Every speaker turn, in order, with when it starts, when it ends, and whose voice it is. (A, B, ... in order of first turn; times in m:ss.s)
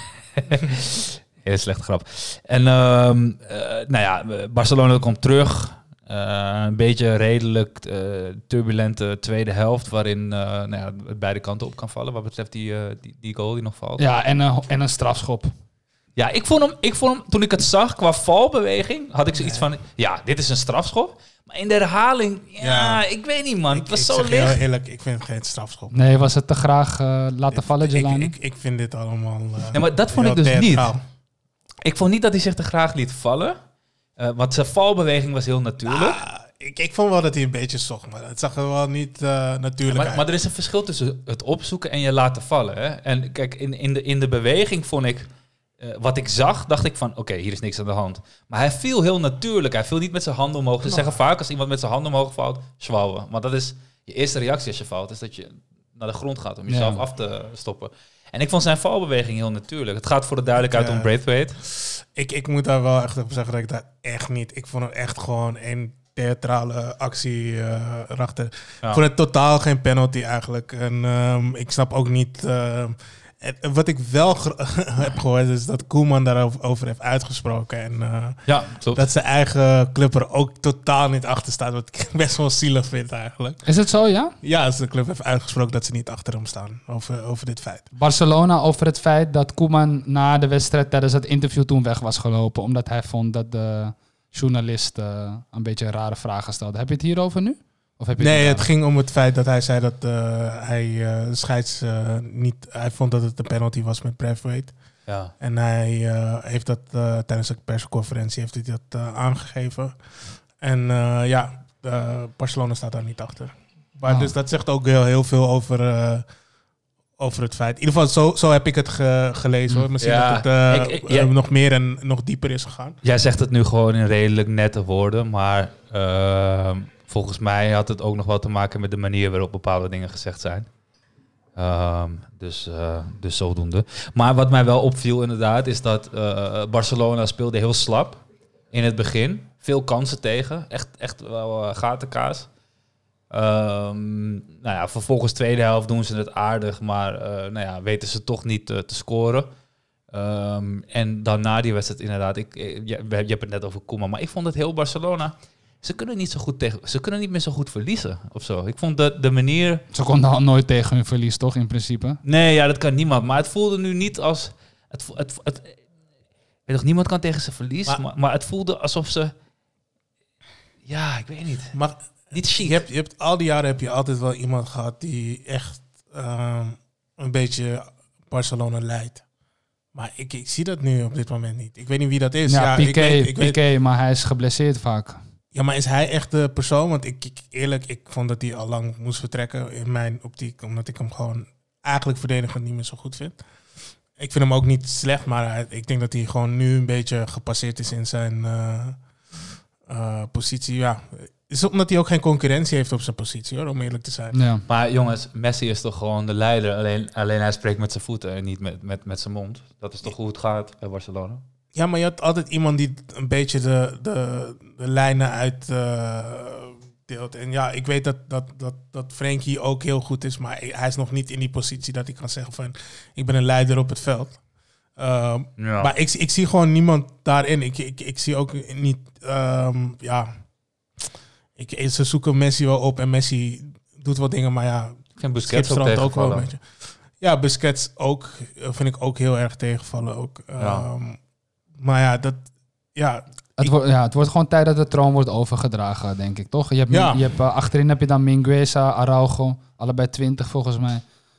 0:00.3-0:14.0 A
0:14.0-0:15.5 B
0:16.2-0:24.6 A
0:19.4-0:19.6 C
0:22.6-0:23.0 C
0:23.7-0:25.9 C
0:25.9-0:28.3 B
0:27.5-0:31.0 C
0:29.7-0:30.9 A
0:31.8-0:33.6 A
0:34.2-0:36.2 A
0:35.8-0:40.2 C
0:39.9-0:45.3 A
0:45.8-1:01.6 A
0:56.7-0:57.0 B
1:00.6-1:01.1 C
1:01.6-1:23.6 C
1:18.4-1:19.0 A
1:23.6-1:24.3 B
1:24.4-1:27.9 C
1:28.0-1:38.7 B
1:38.2-1:44.7 C
1:45.0-1:45.3 A
1:45.4-1:56.2 C
1:54.0-1:54.3 B
1:57.2-2:03.0 C
2:00.0-2:01.3 A
2:03.0-2:10.7 A
2:11.5-2:22.5 A
2:23.3-2:29.5 A
2:30.1-2:39.8 A
2:39.9-2:42.2 B
2:42.2-2:45.8 A
2:46.6-2:49.3 A
2:50.8-2:51.8 A
2:51.7-2:59.2 C
2:52.3-2:52.8 A
2:59.9-3:03.6 C
3:02.5-3:05.2 B
3:05.5-3:13.4 C
3:14.2-3:19.0 C
3:19.8-3:24.4 C
3:24.3-3:24.6 B
3:24.7-3:31.4 A
3:31.7-3:44.4 C
3:45.0-3:50.3 C
3:45.6-3:45.9 A
3:51.6-4:01.2 C
3:55.2-3:56.5 A
4:00.6-4:00.8 A
4:01.8-4:03.7 C
4:03.6-4:11.0 B
4:06.9-4:07.2 C